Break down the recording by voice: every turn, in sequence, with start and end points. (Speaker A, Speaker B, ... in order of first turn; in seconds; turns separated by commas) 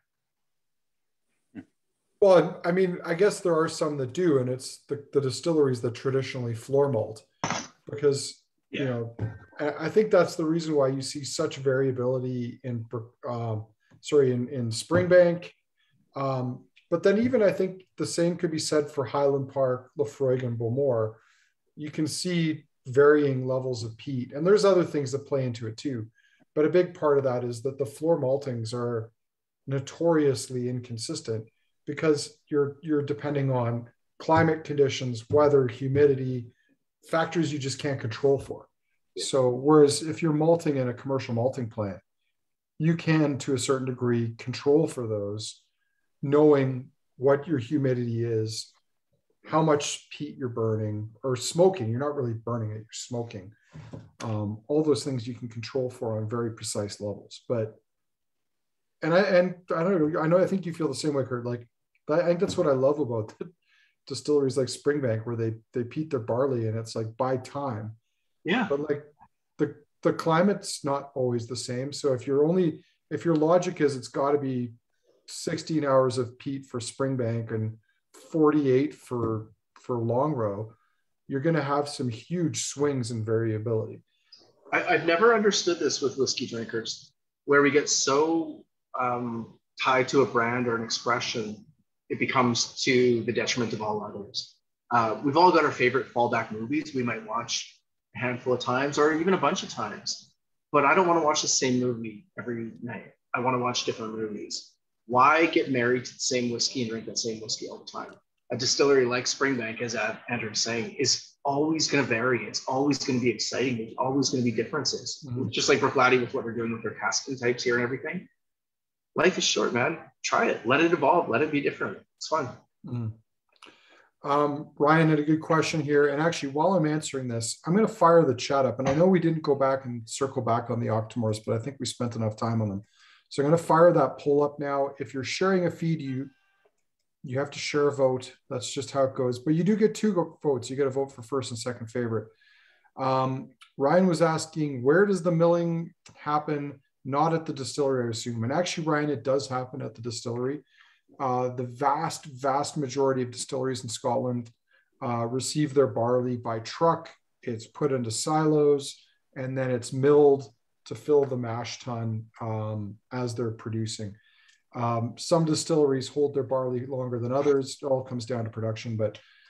Speaker A: 2.2-7.3, Speaker A: 7.9-15.6, Speaker A: 16.1-21.2, Speaker A: 21.8-29.1, Speaker A: 29.7-36.5, Speaker A: 37.0-42.0, Speaker A: 42.8-45.6, Speaker A: 46.2-48.7, Speaker A: 49.4-53.5, Speaker A: 54.2-57.8, Speaker A: 59.0-63.5, Speaker A: 64.1-68.0, Speaker B: 68.5-68.7, Speaker A: 68.7-74.7, Speaker A: 75.3-80.7, Speaker A: 81.3-84.0, Speaker B: 84.7-118.3, Speaker A: 115.2-115.5, Speaker B: 119.2-122.6, Speaker A: 122.8-123.2, Speaker A: 124.2-136.3, Speaker A: 137.2-142.3, Speaker A: 143.0-150.6, Speaker A: 151.2-164.2, Speaker A: 164.7-169.2